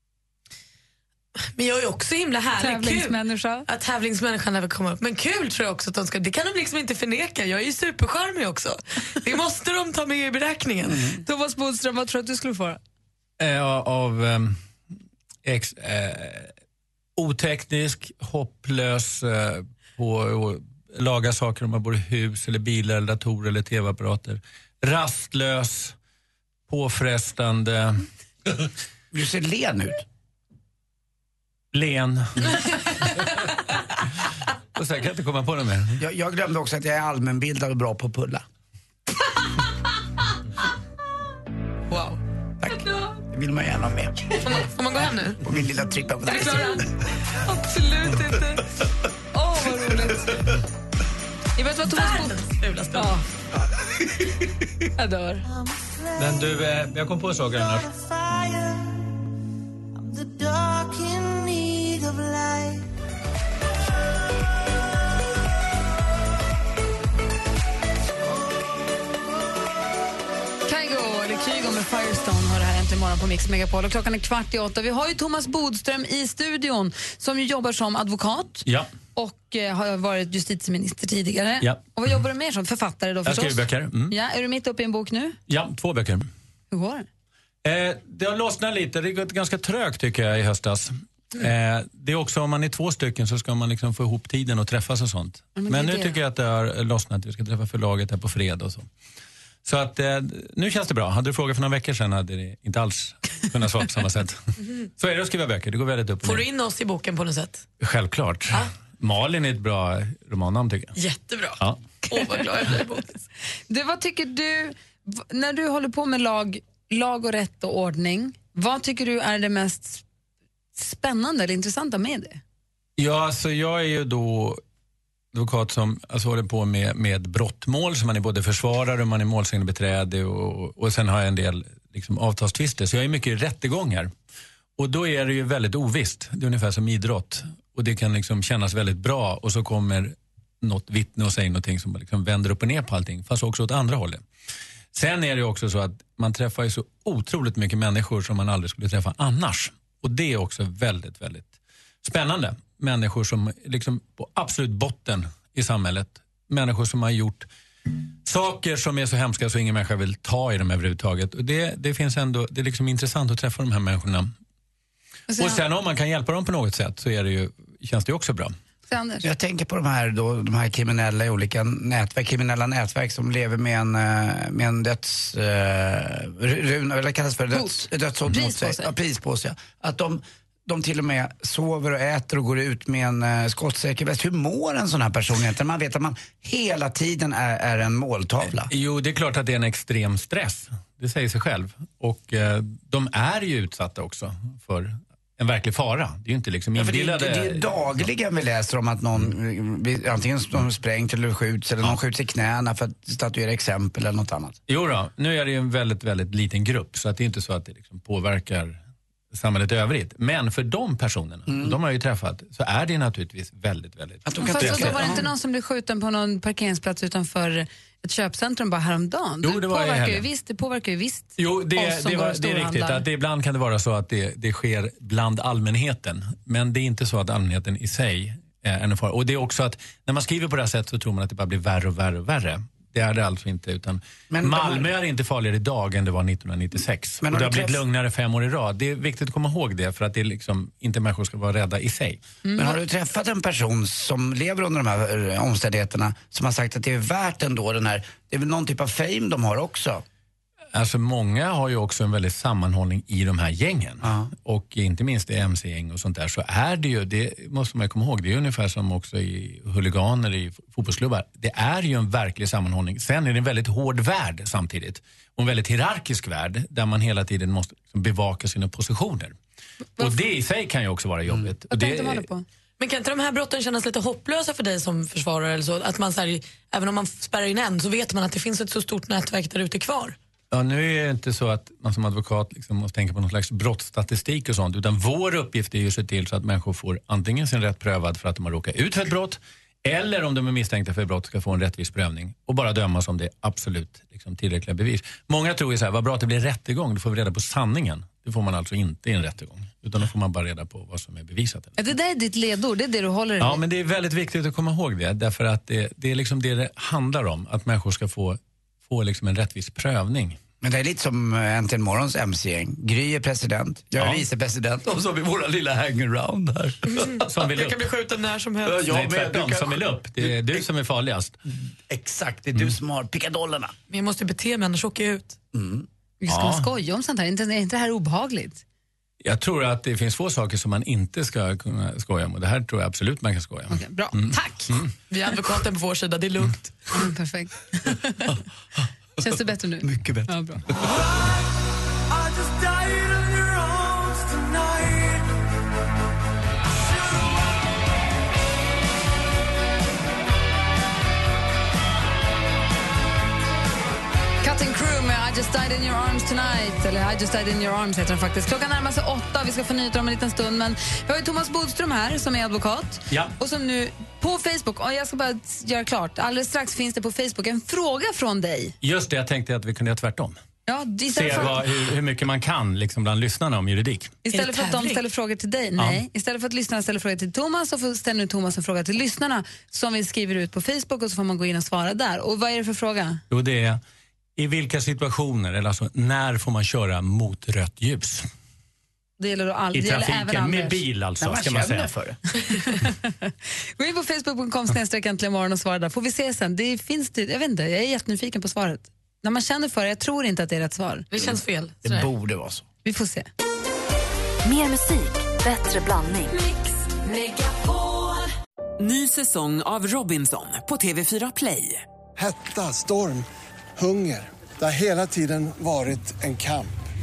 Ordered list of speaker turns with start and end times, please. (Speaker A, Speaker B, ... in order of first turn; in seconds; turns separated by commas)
Speaker A: 1.5-11.1, Speaker B: 2.6-3.7, Speaker B: 11.2-12.8, Speaker C: 13.4-14.6, Speaker C: 15.4-16.5, Speaker C: 17.2-25.9, Speaker C: 26.7-28.1, Speaker D: 29.1-30.0, Speaker C: 31.7-33.3, Speaker C: 34.7-36.0, Speaker D: 36.0-38.4, Speaker A: 41.9-42.2, Speaker D: 42.6-44.5, Speaker A: 44.4-45.4, Speaker D: 45.4-46.9, Speaker B: 46.3-48.6, Speaker A: 46.3-46.8, Speaker A: 48.1-48.5, Speaker B: 49.3-50.4, Speaker B: 51.6-52.4, Speaker A: 51.9-53.2, Speaker B: 52.9-53.2, Speaker B: 55.0-55.5, Speaker E: 55.4-59.1, Speaker C: 56.2-57.9, Speaker E: 59.9-62.9, Speaker B: 70.7-85.4, Speaker C: 78.7-78.9, Speaker C: 83.2-84.1, Speaker C: 85.5-86.3, Speaker B: 86.7-87.1, Speaker C: 87.6-98.9, Speaker B: 95.5-96.2, Speaker C: 99.6-104.4, Speaker C: 105.0-106.5, Speaker A: 106.2-107.7, Speaker C: 107.8-110.9, Speaker A: 111.0-113.2, Speaker B: 113.7-120.0, Speaker B: 120.8-122.4, Speaker C: 123.0-124.6, Speaker C: 125.3-134.1, Speaker C: 134.8-144.2, Speaker C: 144.9-157.5, Speaker C: 158.2-164.3, Speaker B: 165.3-165.6, Speaker C: 165.3-168.5, Speaker B: 168.9-169.2, Speaker D: 169.2-188.7, Speaker B: 177.5-178.9, Speaker C: 188.7-197.7, Speaker D: 196.8-204.6, Speaker C: 204.7-208.8, Speaker C: 209.3-215.2, Speaker D: 211.5-211.8, Speaker D: 214.2-215.2, Speaker B: 214.4-223.0, Speaker C: 219.4-220.2, Speaker C: 221.4-242.2, Speaker D: 234.3-234.9, Speaker D: 237.2-237.8, Speaker B: 242.4-242.8, Speaker D: 242.6-250.0, Speaker C: 250.7-269.4, Speaker D: 254.0-254.3, Speaker C: 270.0-272.2, Speaker B: 271.7-272.4, Speaker A: 272.8-280.2, Speaker C: 280.5-301.7, Speaker B: 301.8-303.6, Speaker C: 303.4-310.4, Speaker D: 310.6-316.8, Speaker A: 316.9-318.8, Speaker C: 317.2-317.8, Speaker D: 318.7-320.6, Speaker C: 318.7-321.3, Speaker D: 321.9-323.7, Speaker A: 323.9-325.4, Speaker D: 325.5-325.9, Speaker B: 326.2-328.6, Speaker C: 326.3-326.6, Speaker C: 329.2-334.9, Speaker B: 333.7-334.8, Speaker A: 335.1-336.9, Speaker B: 336.9-338.3, Speaker B: 339.2-340.6, Speaker D: 339.8-340.3, Speaker E: 344.2-345.1, Speaker B: 354.4-368.8, Speaker C: 363.1-363.3, Speaker C: 368.8-370.4, Speaker B: 370.6-371.6, Speaker C: 371.1-374.1, Speaker B: 374.2-383.2, Speaker A: 374.3-375.0, Speaker C: 375.8-376.0, Speaker C: 383.3-383.8, Speaker C: 384.4-388.3, Speaker B: 389.2-390.8, Speaker C: 389.7-391.9, Speaker D: 391.2-392.2, Speaker B: 392.5-401.1, Speaker A: 401.1-402.1, Speaker D: 401.2-402.6, Speaker B: 402.8-403.3, Speaker E: 404.4-408.3, Speaker F: 408.8-411.8, Speaker G: 412.1-416.8